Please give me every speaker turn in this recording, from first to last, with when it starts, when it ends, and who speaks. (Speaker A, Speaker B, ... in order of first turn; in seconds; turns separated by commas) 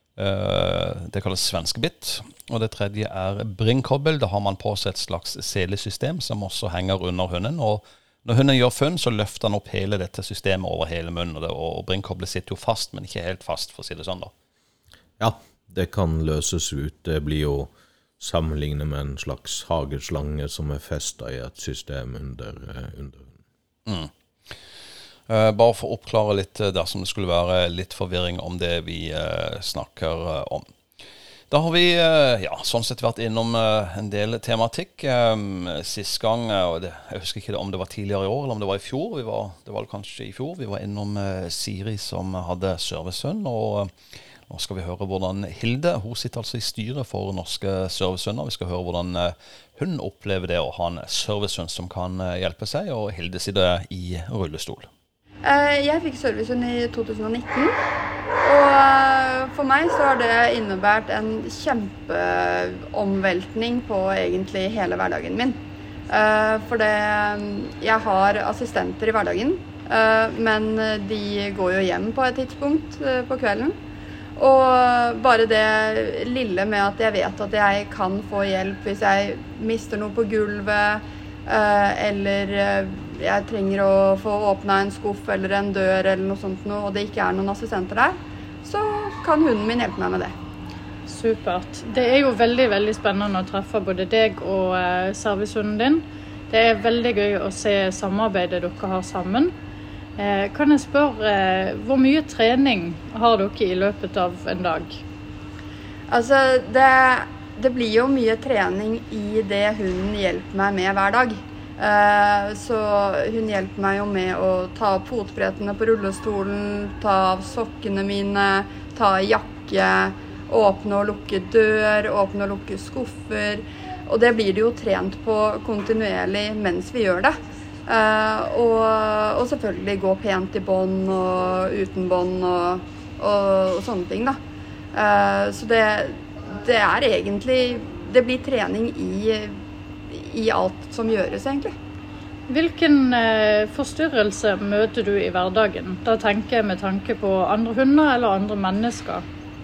Speaker A: 0.2-14.3, Speaker B: 15.2-23.4, Speaker A: 23.9-24.1, Speaker A: 25.3-30.7, Speaker A: 31.5-43.9, Speaker A: 44.5-54.9, Speaker C: 55.4-57.8, Speaker C: 58.4-65.6, Speaker C: 66.1-73.8, Speaker C: 74.4-90.3, Speaker D: 91.1-99.5, Speaker D: 100.2-105.0, Speaker C: 106.1-134.4, Speaker C: 134.9-139.6, Speaker C: 140.1-141.7, Speaker D: 142.5-149.2